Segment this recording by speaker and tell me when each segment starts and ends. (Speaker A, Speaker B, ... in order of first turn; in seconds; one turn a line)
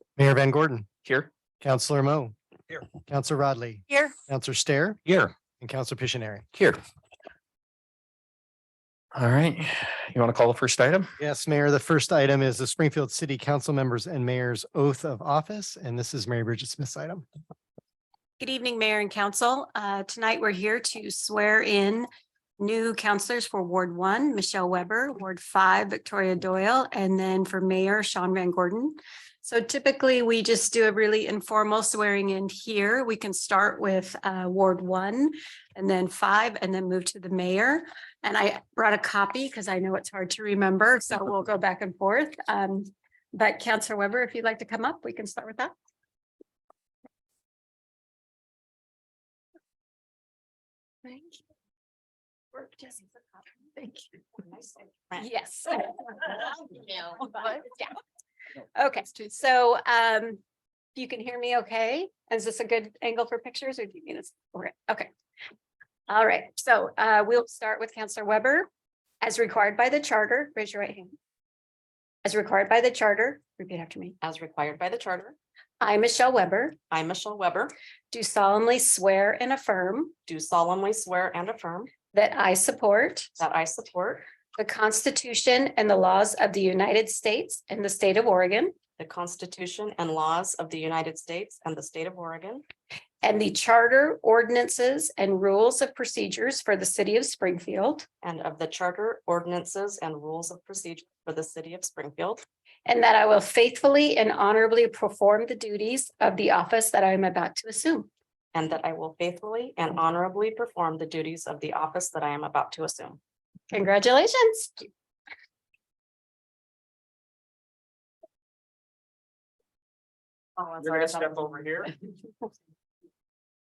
Speaker A: 0.2-0.9
Speaker B: 1.0-1.3
Speaker A: 1.6-2.3
Speaker A: 2.9-6.5
Speaker B: 9.1-11.1
Speaker A: 11.2-17.2
Speaker C: 18.4-22.1
Speaker C: 22.6-45.7
Speaker C: 51.0-51.4
Speaker C: 52.5-53.2
Speaker D: 54.5-55.3
Speaker C: 55.2-57.9
Speaker C: 58.8-60.4
Speaker C: 60.9-65.1
Speaker C: 66.1-68.7
Speaker C: 69.2-71.1
Speaker C: 72.2-74.2
Speaker D: 74.2-75.3
Speaker C: 75.8-76.8
Speaker D: 76.9-77.7
Speaker C: 78.1-80.1
Speaker D: 80.3-81.9
Speaker C: 82.1-83.3
Speaker D: 83.4-84.2
Speaker C: 84.5-88.7
Speaker D: 89.0-92.6
Speaker C: 93.2-98.0
Speaker D: 98.2-102.4
Speaker C: 102.8-108.1
Speaker D: 108.5-113.2
Speaker C: 113.7-114.8
Speaker D: 120.6-121.2
Speaker B: 120.8-121.9